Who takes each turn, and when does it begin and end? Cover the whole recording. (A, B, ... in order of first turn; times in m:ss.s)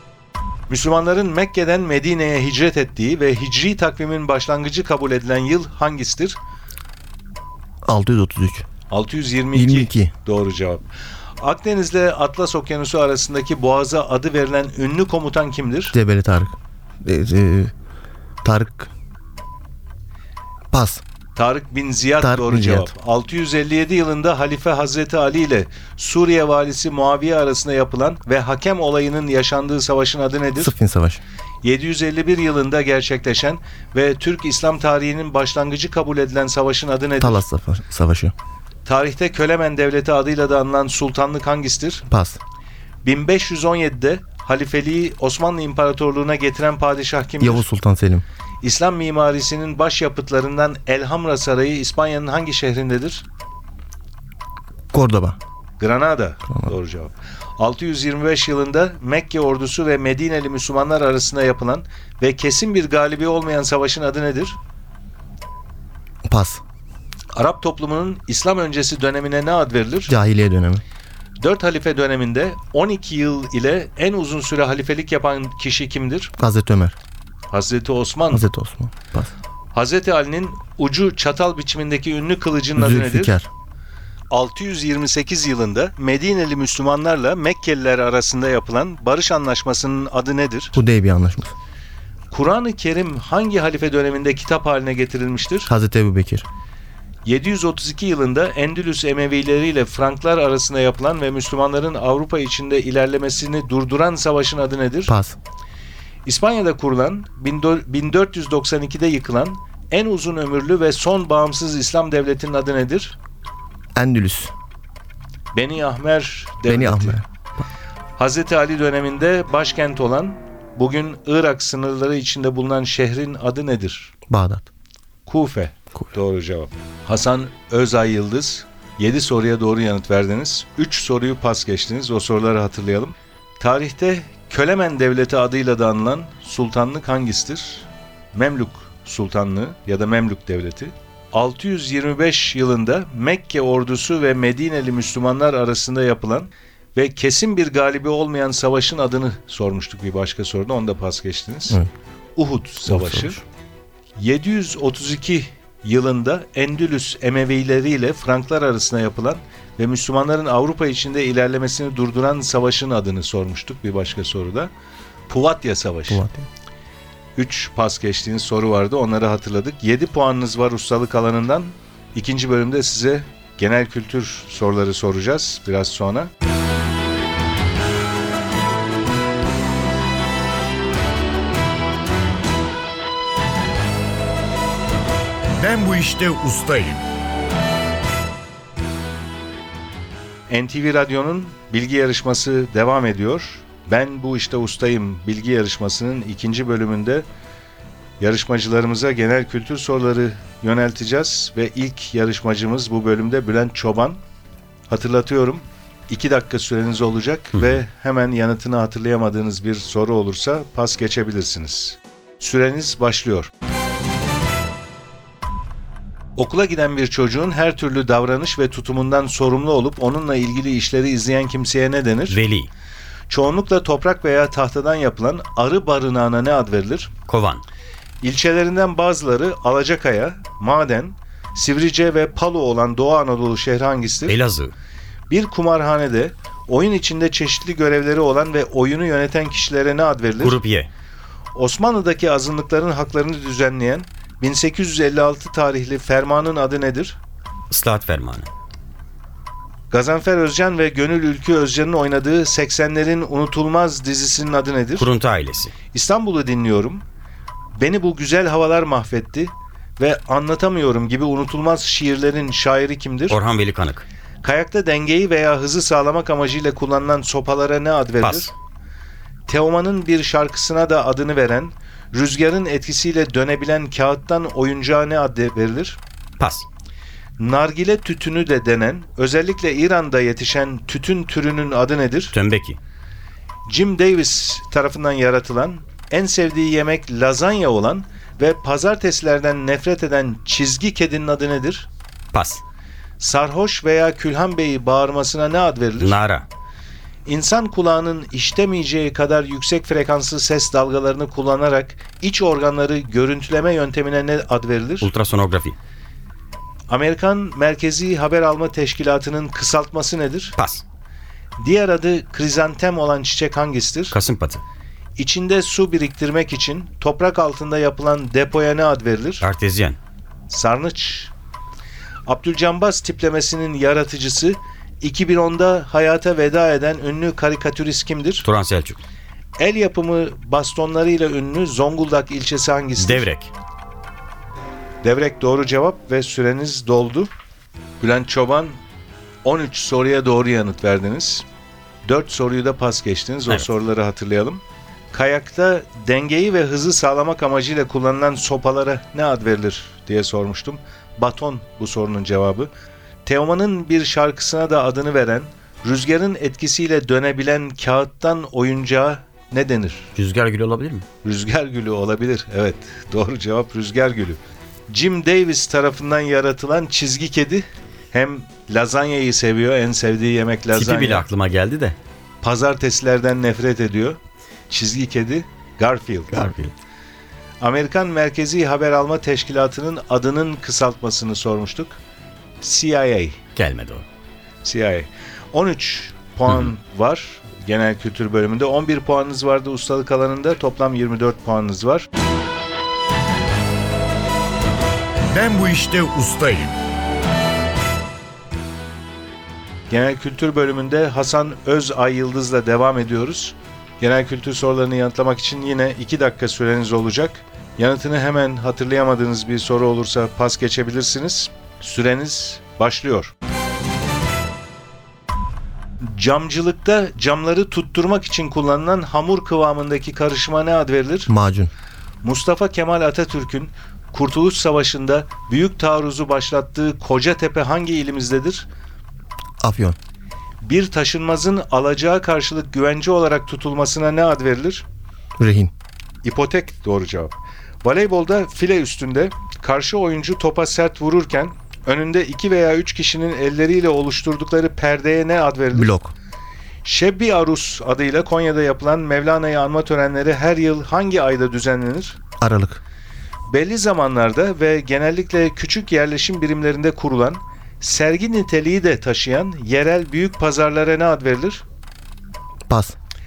0:00.7-0:06.4 A
0:07.8-0:08.7 B
0:08.9-0:10.9 A
0:09.5-0:10.1 B
0:11.4-0:16.0 A
0:15.9-0:17.7 B
0:18.4-0:18.9 B
0:20.7-0:21.0 B
0:21.4-0:30.8 A
0:22.2-0:22.9 B
0:30.6-0:31.2 B
0:31.6-0:37.4 A
0:37.2-0:38.3 B
0:38.8-0:42.1 A
0:42.1-0:42.4 B
0:43.0-0:47.6 A
0:47.4-0:48.2 B
0:48.6-0:53.2 A
0:54.9-0:55.4 B
0:55.8-1:04.6 A
1:06.3-1:06.6 B
1:07.4-1:10.1 A
1:10.1-1:10.8 B
1:11.4-1:16.3 A
1:16.4-1:17.0 B
1:17.5-1:18.4 A
1:18.3-1:19.3 B
1:19.7-1:23.4 A
1:22.8-1:23.5 B
1:24.3-1:30.8 A
1:30.7-1:31.5 B
1:32.3-1:35.7 A
1:35.7-1:36.5 B
1:37.2-1:45.1 A
1:45.1-1:45.4 B
1:46.2-1:53.2 A
1:54.0-1:54.5 B
1:55.5-1:57.2 A
1:56.7-1:57.3 B
1:58.2-2:04.1 A
2:04.3-2:04.7 B
2:05.3-2:31.8 A
2:32.4-2:33.4 A
2:32.9-2:33.4 B
2:34.2-2:44.7 A
2:45.3-2:46.2 A
2:46.1-2:46.5 B
2:47.4-2:56.3 A
3:05.6-3:07.0 C
3:10.5-3:17.2 A
3:18.2-3:24.2 A
3:24.9-3:33.5 A
3:27.6-3:27.8 D
3:36.4-3:42.4 A
3:42.3-3:42.7 D
3:43.3-3:47.1 A
3:47.3-3:47.6 D
3:48.2-3:54.4 A
3:54.3-3:54.7 D
3:55.3-4:00.6 A
4:00.4-4:00.9 D
4:01.6-4:07.2 A
4:07.7-4:08.5 D
4:09.9-4:15.1 A
4:15.0-4:15.7 D
4:15.9-4:17.0 A
4:17.8-4:23.4 A
4:23.3-4:24.1 D
4:24.4-4:28.5 A
4:28.2-4:28.5 D
4:29.5-4:36.0 A
4:36.4-4:36.7 D
4:37.4-4:42.4 A
4:42.3-4:42.8 D
4:43.7-4:51.9 A
4:52.3-4:52.6 D
4:53.2-4:56.2 A
4:56.0-4:56.5 D
4:57.3-5:05.1 A
5:05.0-5:05.8 D
5:06.9-5:10.6 A
5:10.6-5:10.8 D
5:11.6-5:14.2 A
5:14.1-5:14.6 D
5:15.2-5:19.5 A
5:19.4-5:20.0 D
5:20.5-5:21.3 A
5:22.3-5:28.5 A
5:28.4-5:29.0 D
5:29.6-5:33.3 A
5:33.0-5:33.5 D
5:35.0-5:37.3 A
5:38.0-5:38.8 A
5:39.4-5:41.4 A
5:42.0-5:52.7 A
5:53.2-6:00.1 A
6:00.2-6:01.0 D
6:01.2-6:04.4 A
6:04.9-6:11.3 A
6:10.7-6:12.0 D
6:12.4-6:14.2 A
6:14.7-6:16.5 A
6:16.3-6:16.7 D
6:17.6-6:22.0 A
6:22.6-6:23.4 A
6:23.6-6:24.0 D
6:24.6-6:32.1 A
6:35.3-6:36.8 C
6:39.9-6:53.3 A
6:56.0-7:01.3 A
7:01.3-7:01.7 B
7:02.2-7:08.7 A
7:09.6-7:10.0 B
7:10.6-7:14.8 A
7:15.4-7:15.7 B
7:16.2-7:25.9 A
7:25.7-7:26.1 B
7:26.8-7:32.2 A
7:32.4-7:32.8 B
7:33.5-7:41.6 A
7:42.7-7:43.0 B